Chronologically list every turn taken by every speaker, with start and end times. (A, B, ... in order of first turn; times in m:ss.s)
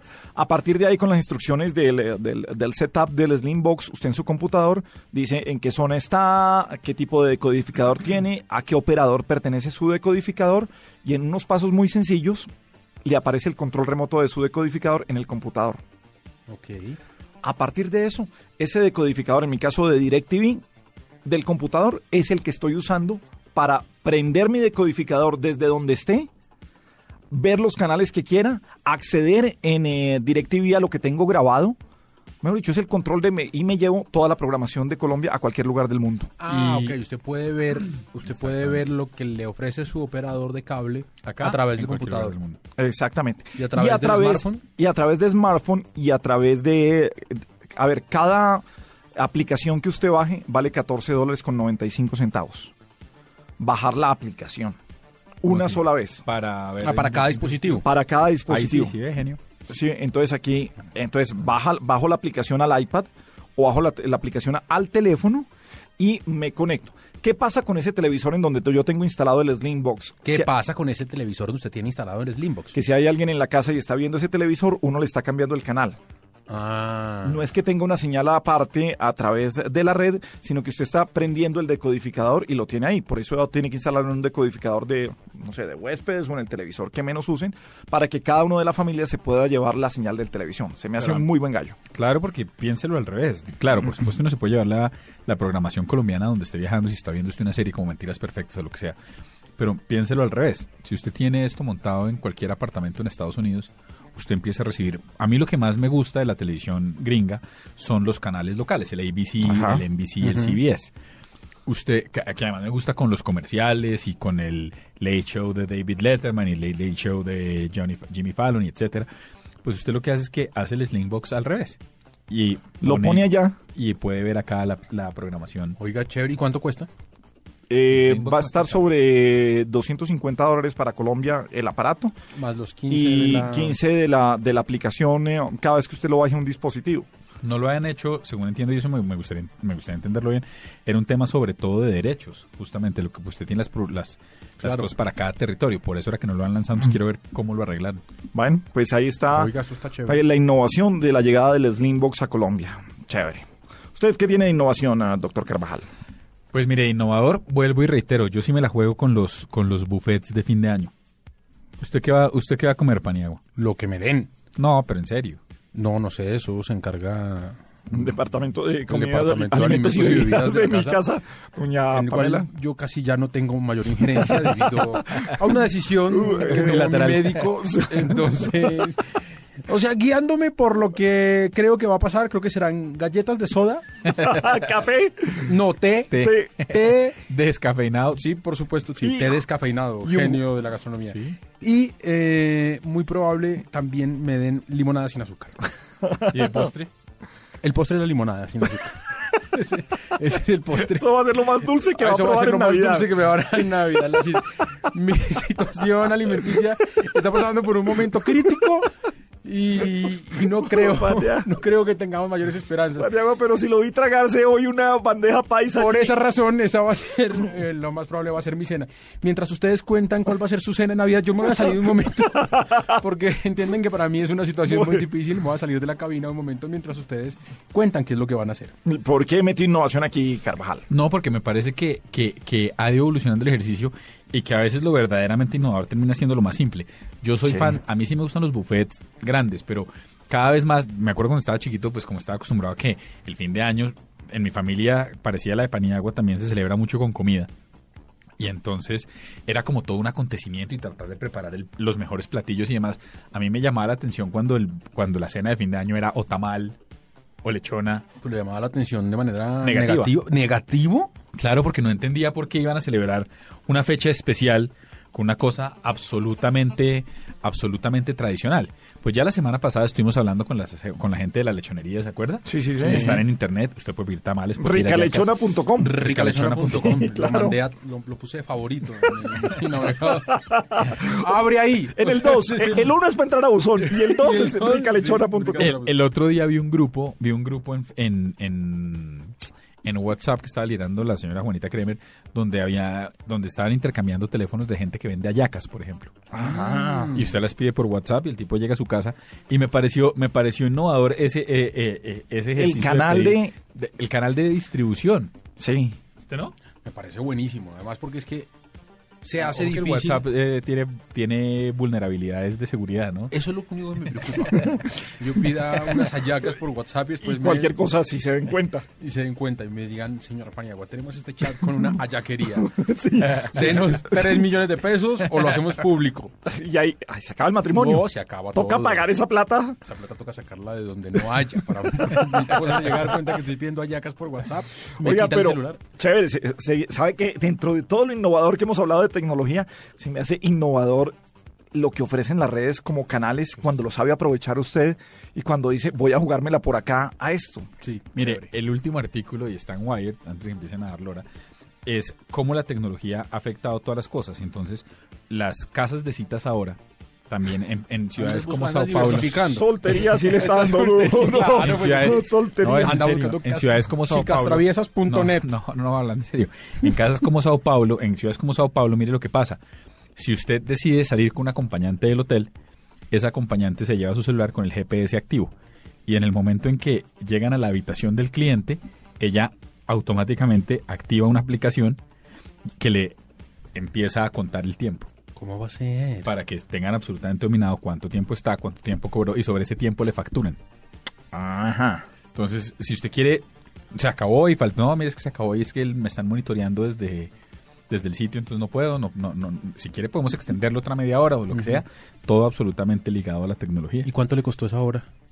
0:00.3-0:12.5 A
0:13.0-0:15.8 A
0:16.5-0:17.0 B
0:17.4-0:20.6 A
0:21.2-0:26.3 A
0:27.3-0:31.8 A
0:32.4-0:36.3 A
0:36.4-0:42.4 B
0:36.5-0:37.0 C
0:38.2-0:38.8 C
0:41.2-0:42.6 C
0:42.8-0:48.6 A
0:43.5-0:44.6 B
0:49.2-0:52.7 A
0:53.6-0:54.8 A
0:55.4-0:56.2 A
0:55.5-0:57.8 C
0:56.8-0:57.8 B
0:57.8-0:59.0 A
0:58.5-0:59.4 C
0:59.7-1:10.5 A
1:10.2-1:12.8 B
1:12.7-1:16.0 A
1:16.5-1:17.4 B
1:17.2-1:31.8 A
1:31.0-1:31.3 C
1:31.9-1:39.0 C
1:39.6-1:50.9 C
1:49.4-1:49.8 A
1:50.2-1:50.6 B
1:51.6-1:59.1 C
1:59.6-2:05.8 C
2:02.8-2:03.6 A
2:05.8-2:06.9 B
2:07.7-2:12.1 A
2:07.9-2:08.9 C
2:12.3-2:13.8 B
2:12.9-2:17.1 A
2:17.4-2:28.0 C
2:24.6-2:24.9 B
2:28.3-2:29.5 A
2:29.3-2:30.2 B
2:30.1-2:35.9 A
2:36.5-2:40.9 C
2:41.8-2:43.4 C
2:43.6-2:44.3 B
2:44.6-2:45.4 C
2:45.7-2:48.1 B
2:47.9-2:52.5 A
2:48.9-2:51.0 B
2:51.9-3:04.3 B
2:56.1-2:56.8 A
2:56.5-2:57.4 C
2:57.5-2:58.7 A
3:04.2-3:05.5 A
3:05.4-3:07.2 B
3:06.1-3:08.3 C
3:06.2-3:06.5 A
3:08.1-3:15.7 B
3:09.0-3:09.4 A
3:11.1-3:11.4 C
3:16.0-3:16.5 A
3:16.3-3:16.7 C
3:16.5-3:16.9 B
3:17.6-3:28.9 B
3:20.8-3:23.1 A
3:29.4-3:33.1 B
3:30.6-3:31.5 A
3:32.9-3:36.1 A
3:35.7-3:48.7 B
3:44.6-3:45.1 A
3:48.8-3:50.9 A
3:50.9-4:07.5 C
3:57.4-3:57.8 A
4:08.4-4:16.8 C
4:17.4-4:18.0 C
4:18.2-4:21.1 B
4:19.6-4:20.1 C
4:21.3-4:37.0 C
4:32.4-4:33.2 A
4:32.8-4:33.2 B
4:34.6-4:35.9 A
4:35.8-4:43.0 B
4:36.8-4:37.6 A
4:40.3-4:41.1 A
4:42.0-4:45.7 A
4:43.8-4:46.0 B
4:45.6-4:56.2 C
4:56.3-4:57.1 A
4:56.4-4:57.4 B
4:57.2-5:05.3 C
5:02.6-5:03.5 A
5:05.6-5:06.0 A
5:06.2-5:06.6 C
5:06.8-5:08.5 B
5:09.2-5:10.2 B
5:09.4-5:13.3 C
5:13.3-5:17.8 B
5:17.2-5:18.8 A
5:18.9-5:26.3 B
5:22.5-5:23.6 A
5:23.2-5:23.9 C
5:26.4-5:29.8 A
5:27.7-5:29.1 B
5:29.8-5:35.8 B
5:35.0-5:41.2 A
5:41.7-5:47.7 A
5:47.8-5:48.5 B
5:48.1-5:51.2 C
5:51.8-5:56.8 C
5:57.3-5:59.6 C
5:58.2-6:05.5 B
5:58.9-6:03.0 A
6:01.6-6:09.6 C
6:10.2-6:12.5 C
6:13.1-6:15.5 C
6:16.0-6:22.0 C
6:22.8-6:23.2 C
6:23.7-6:25.1 C
6:25.4-6:26.3 B
6:26.2-6:30.6 C
6:31.3-6:32.0 A
6:32.3-6:37.3 C
6:37.9-6:44.1 C
6:41.5-6:41.8 B
6:44.0-6:45.0 B